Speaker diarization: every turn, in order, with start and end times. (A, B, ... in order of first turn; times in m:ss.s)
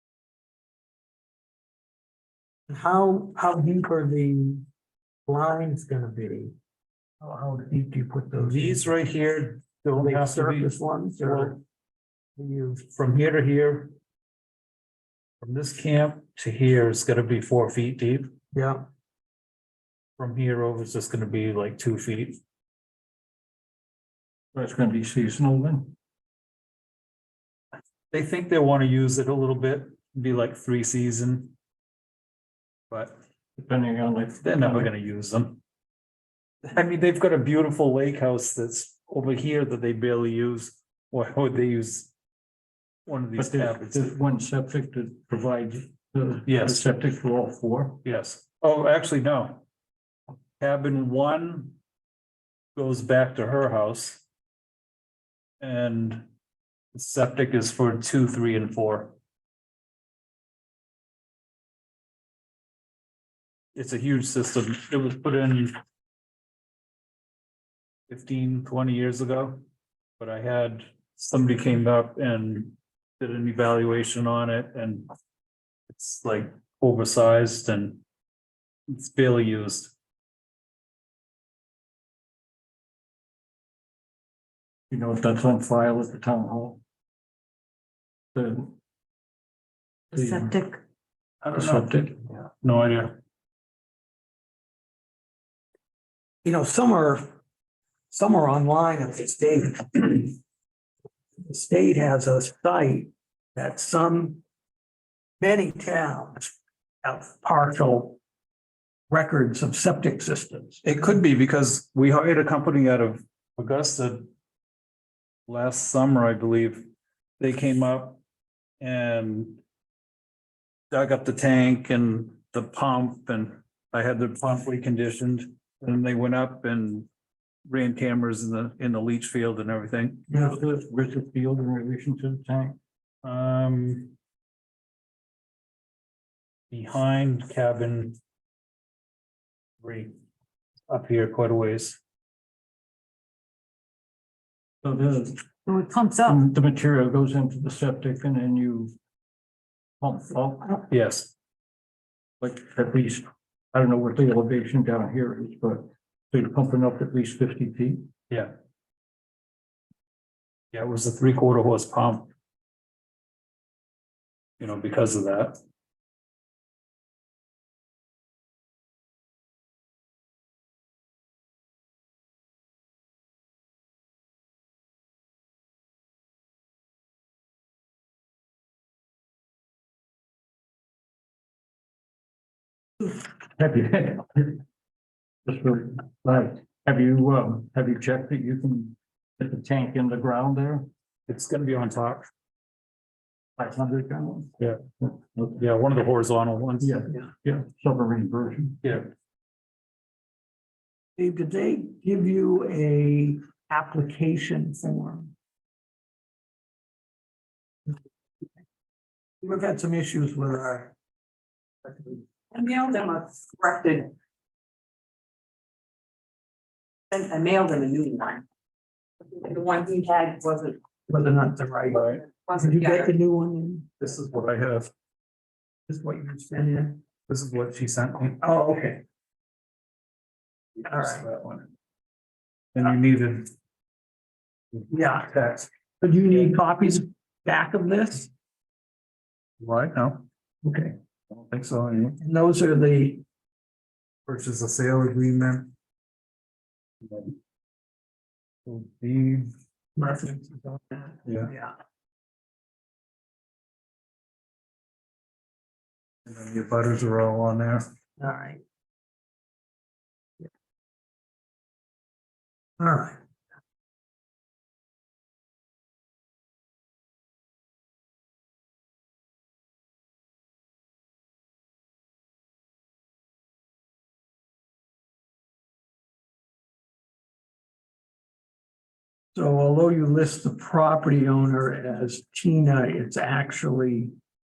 0:02.7-0:04.7 A
0:05.2-0:06.5 A
0:07.2-0:08.9 A
0:08.4-0:11.6 B
0:09.9-0:11.6 A
0:12.4-0:12.8 A
0:12.8-0:13.9 B
0:15.4-0:18.3 B
0:18.5-0:18.8 A
0:20.2-0:22.4 B
0:24.5-0:25.9 C
0:28.1-0:31.5 B
0:32.9-0:33.2 B
0:33.6-0:34.9 C
0:34.4-0:35.6 B
0:36.7-0:42.1 B
0:43.0-0:44.1 B
0:43.4-0:48.0 C
0:46.4-0:46.8 B
0:48.0-0:49.6 B
0:50.6-0:51.8 B
0:52.7-0:54.2 B
0:55.6-0:56.3 B
0:56.9-0:59.1 B
1:03.7-1:05.7 B
1:08.1-1:09.6 B
1:10.2-1:15.1 B
1:15.9-1:18.0 B
1:18.9-1:19.9 B
1:24.9-1:26.8 C
1:28.3-1:28.7 C
1:30.1-1:30.7 C
1:30.4-1:30.8 D
1:31.4-1:33.2 B
1:31.5-1:32.2 C
1:36.4-1:37.3 A
1:38.1-1:40.4 A
1:41.4-1:44.4 A
1:45.4-1:46.5 A
1:47.0-1:48.2 A
1:49.1-1:50.8 A
1:50.8-1:54.3 B
1:55.5-1:56.8 B
1:57.4-1:58.2 B
1:58.8-1:59.6 B
2:00.9-2:07.1 B
2:07.7-2:10.2 B
2:10.3-2:10.5 A
2:10.3-2:12.8 C
2:13.2-2:14.1 B
2:16.7-2:18.2 B
2:19.8-2:20.1 B
2:20.9-2:22.0 B
2:24.8-2:28.9 C
2:25.7-2:26.4 D
2:30.0-2:30.8 C
2:30.9-2:31.3 B
2:32.4-2:38.1 C
2:40.7-2:42.3 B
2:44.6-2:45.6 B
3:03.0-3:04.6 C
3:05.4-3:10.9 C
3:11.3-3:12.3 B
3:13.6-3:15.5 C
3:15.5-3:17.0 B
3:16.8-3:18.8 C
3:18.8-3:19.1 B
3:21.2-3:25.3 A
3:29.4-3:30.9 A
3:31.8-3:32.2 A
3:32.5-3:34.1 D
3:37.1-3:38.4 D
3:39.2-3:40.8 D
3:41.1-3:43.9 A
3:41.9-3:42.2 B
3:42.3-3:43.1 D
3:44.0-3:44.9 B
3:45.9-3:47.0 A
3:47.3-3:48.4 B
3:48.4-3:49.0 A
3:50.8-3:51.2 A
3:51.0-3:51.7 B
3:52.7-3:53.5 B
3:54.7-3:55.7 B
3:54.9-3:58.3 A
3:59.6-4:00.2 B
4:00.6-4:00.9 A
4:01.3-4:02.2 B
4:02.2-4:03.2 A
4:04.2-4:05.7 B
4:07.0-4:07.3 B
4:08.6-4:09.5 B
4:10.0-4:11.7 A
4:16.2-4:17.8 B
4:18.2-4:18.6 A
4:22.8-4:23.2 A
4:39.3-4:44.1 A